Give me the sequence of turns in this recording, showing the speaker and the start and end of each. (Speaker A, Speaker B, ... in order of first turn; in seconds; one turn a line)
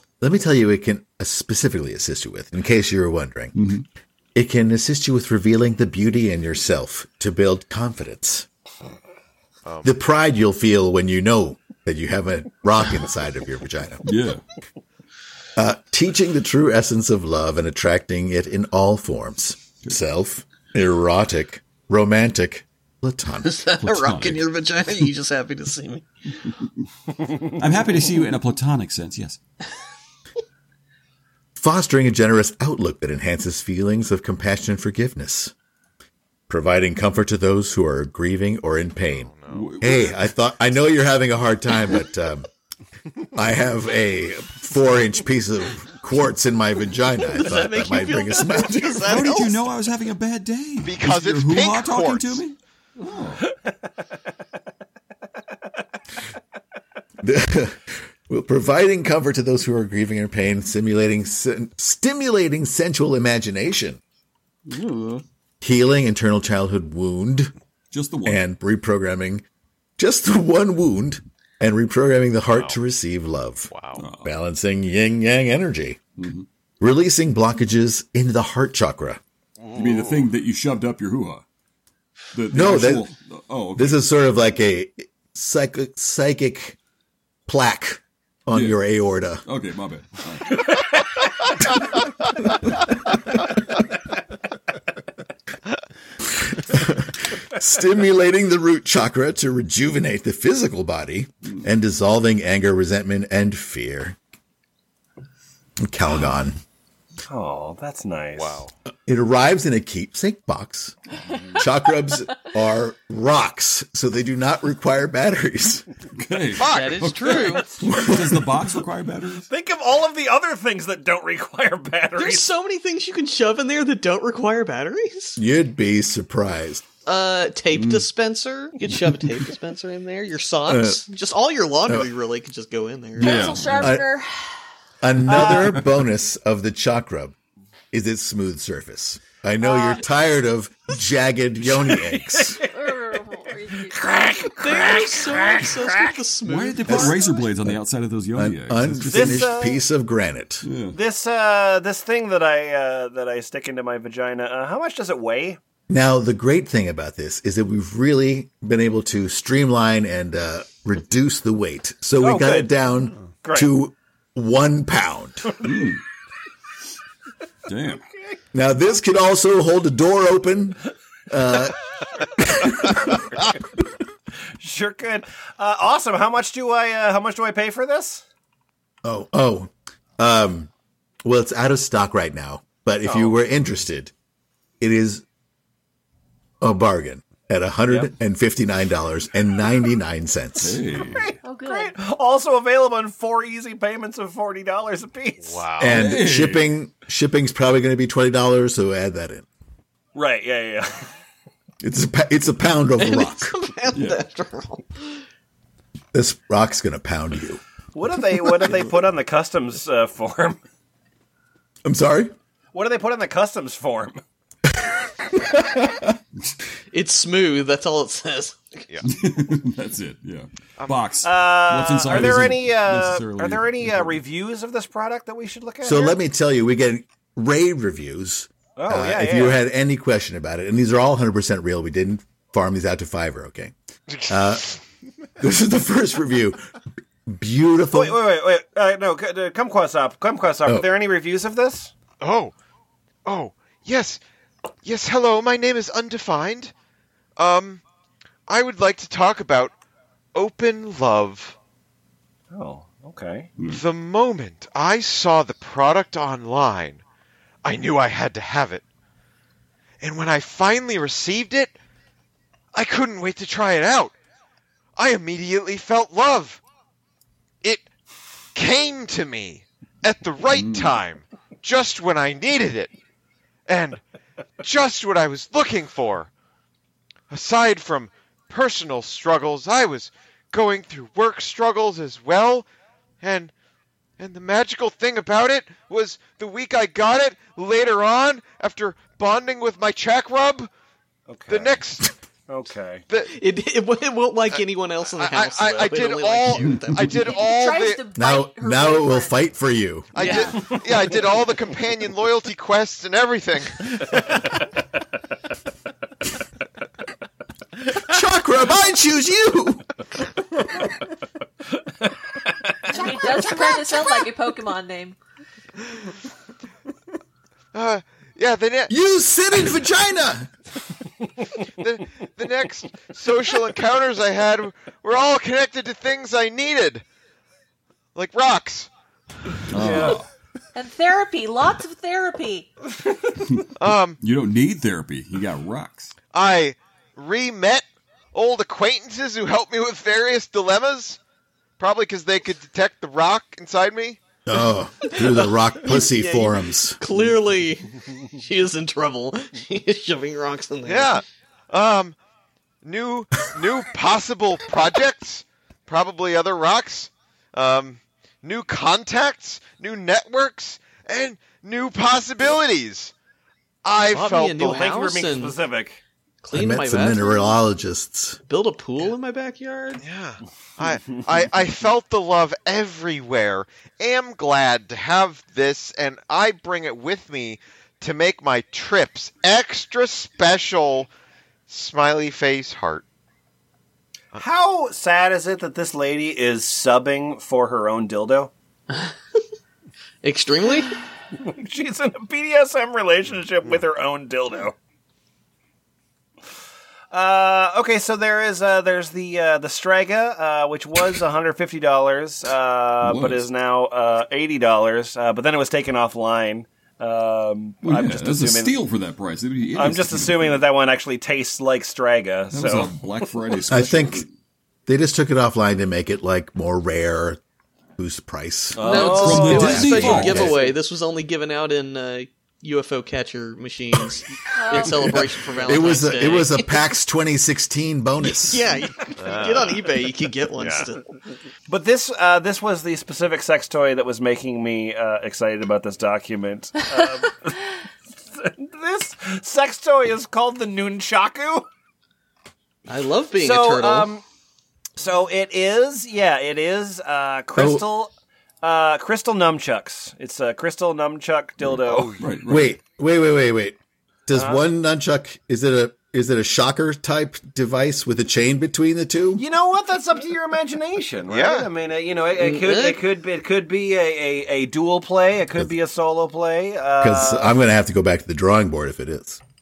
Speaker A: 0.2-3.5
Speaker B: 3.5-3.9
Speaker A: 4.3-8.5
Speaker C: 9.6-9.9
Speaker A: 9.8-14.0
Speaker B: 14.0-14.4
Speaker A: 15.6-23.6
Speaker D: 23.4-26.1
Speaker B: 23.8-24.5
Speaker B: 27.5-29.4
Speaker A: 31.6-35.5
Speaker A: 36.5-42.5
Speaker C: 39.1-39.8
Speaker B: 39.5-40.2
Speaker A: 43.4-49.2
Speaker D: 47.2-49.7
Speaker B: 49.1-53.4
Speaker C: 50.8-52.4
Speaker A: 57.2-64.0
Speaker D: 64.7-65.2
Speaker A: 65.6-67.5
Speaker B: 67.9-68.4
Speaker A: 68.2-69.4
Speaker A: 70.0-73.7
Speaker C: 73.7-74.1
Speaker B: 74.0-74.3
Speaker A: 74.2-76.0
Speaker B: 76.2-76.5
Speaker A: 76.8-79.2
Speaker C: 79.6-80.3
Speaker B: 79.7-81.4
Speaker B: 82.3-84.0
Speaker A: 82.5-83.1
Speaker A: 83.8-86.8
Speaker A: 87.5-89.4
Speaker B: 88.5-88.8
Speaker B: 89.4-90.7
Speaker A: 96.3-104.2
Speaker A: 105.8-106.6
Speaker E: 107.3-108.6
Speaker C: 108.4-108.7
Speaker A: 109.0-111.0
Speaker A: 111.5-115.9
Speaker B: 116.2-119.5
Speaker C: 116.6-117.4
Speaker D: 116.7-117.7
Speaker A: 117.8-118.5
Speaker E: 119.5-122.5
Speaker D: 122.2-125.4
Speaker A: 125.4-126.8
Speaker D: 127.0-133.5
Speaker B: 127.7-128.1
Speaker A: 130.7-131.0
Speaker B: 133.2-134.0
Speaker F: 133.2-134.5
Speaker A: 133.8-134.1
Speaker A: 135.0-137.3
Speaker E: 135.3-135.8
Speaker B: 135.5-135.8
Speaker A: 137.9-142.6
Speaker F: 139.6-140.1
Speaker E: 141.9-142.7
Speaker F: 142.7-144.1
Speaker E: 143.9-146.1
Speaker D: 144.6-147.3
Speaker B: 146.4-149.6
Speaker A: 146.9-147.1
Speaker A: 148.4-150.7
Speaker E: 149.1-149.8
Speaker B: 150.6-151.0
Speaker E: 150.9-155.6
Speaker A: 155.9-165.5
Speaker E: 162.2-162.7
Speaker E: 163.4-163.7
Speaker B: 165.6-166.0
Speaker B: 167.7-168.0
Speaker A: 168.5-171.8
Speaker A: 172.4-173.2
Speaker E: 174.6-178.2
Speaker A: 179.0-180.7
Speaker A: 181.2-184.1
Speaker E: 183.0-183.4
Speaker A: 184.8-185.2
Speaker A: 186.6-190.8
Speaker B: 190.6-191.3
Speaker E: 191.0-195.6
Speaker F: 191.4-191.9
Speaker C: 195.4-196.1
Speaker A: 195.8-199.5
Speaker B: 195.9-196.6
Speaker E: 200.1-201.1
Speaker A: 201.8-203.5
Speaker D: 203.0-205.2
Speaker B: 203.9-204.2
Speaker A: 206.1-207.6
Speaker E: 207.9-210.6
Speaker A: 211.8-212.3
Speaker E: 212.7-214.2
Speaker A: 214.8-216.1
Speaker D: 216.9-218.9
Speaker B: 219.0-224.2
Speaker C: 220.8-221.2
Speaker E: 221.2-226.2
Speaker A: 225.8-233.7
Speaker E: 228.8-229.6
Speaker A: 234.3-234.7
Speaker A: 235.4-236.6
Speaker A: 237.3-238.2
Speaker E: 237.9-241.9
Speaker C: 242.2-242.6
Speaker C: 243.2-244.2
Speaker C: 244.8-246.7
Speaker C: 247.4-247.8
Speaker C: 248.5-249.8
Speaker C: 250.3-251.6
Speaker E: 252.5-253.5
Speaker B: 253.6-253.8
Speaker C: 253.6-257.0
Speaker C: 257.6-258.8
Speaker C: 260.0-261.8
Speaker C: 262.7-264.1
Speaker C: 265.0-266.6
Speaker C: 268.5-272.9
Speaker B: 270.5-271.0
Speaker C: 273.7-274.0
Speaker C: 274.6-276.3
Speaker C: 277.3-282.7
Speaker C: 283.2-283.5
Speaker C: 284.2-290.7
Speaker E: 291.3-291.8
Speaker C: 291.5-292.1
Speaker E: 292.5-293.0
Speaker D: 293.2-297.3
Speaker C: 295.1-298.0
Speaker B: 296.6-297.2
Speaker F: 297.2-299.4
Speaker A: 298.1-300.1
Speaker C: 300.1-303.9
Speaker D: 300.2-300.5
Speaker E: 300.2-301.0
Speaker A: 308.0-309.9
Speaker E: 312.9-313.8
Speaker F: 312.9-315.1
Speaker C: 317.7-318.9
Speaker A: 318.9-320.5
Speaker C: 321.8-327.0
Speaker C: 328.1-328.9
Speaker B: 329.7-330.3
Speaker E: 329.7-330.2
Speaker F: 330.8-332.7
Speaker C: 333.8-334.2
Speaker B: 334.2-336.1
Speaker C: 336.3-341.2
Speaker C: 341.8-344.2
Speaker A: 344.5-347.0
Speaker D: 345.0-351.2
Speaker C: 350.9-352.2
Speaker C: 352.8-363.1
Speaker C: 363.8-364.9
Speaker D: 364.1-365.6
Speaker E: 364.7-366.0
Speaker D: 366.4-367.6
Speaker A: 366.5-368.4
Speaker D: 368.4-370.0
Speaker C: 370.0-381.1
Speaker C: 381.7-383.0
Speaker E: 384.4-388.5
Speaker D: 390.2-391.0
Speaker E: 391.4-394.8
Speaker E: 397.1-408.8
Speaker B: 403.0-403.5
Speaker B: 407.8-410.6
Speaker E: 409.8-412.9
Speaker B: 412.5-414.3
Speaker A: 413.7-414.2
Speaker A: 414.9-417.4
Speaker A: 418.0-420.5
Speaker E: 418.8-420.7
Speaker D: 418.8-426.8
Speaker B: 419.0-420.6
Speaker F: 424.6-425.1
Speaker A: 425.1-428.6
Speaker D: 428.2-431.1
Speaker C: 429.2-429.8
Speaker E: 430.6-430.9
Speaker E: 431.7-437.6
Speaker E: 438.3-441.7
Speaker D: 442.9-444.1
Speaker E: 443.4-444.2
Speaker E: 445.0-448.1
Speaker A: 447.5-447.9
Speaker E: 448.6-452.1
Speaker C: 451.7-452.4
Speaker B: 452.2-452.8
Speaker A: 452.5-459.4
Speaker E: 454.3-454.6
Speaker E: 459.4-467.5
Speaker C: 461.3-461.7
Speaker D: 462.3-463.1
Speaker A: 467.0-469.4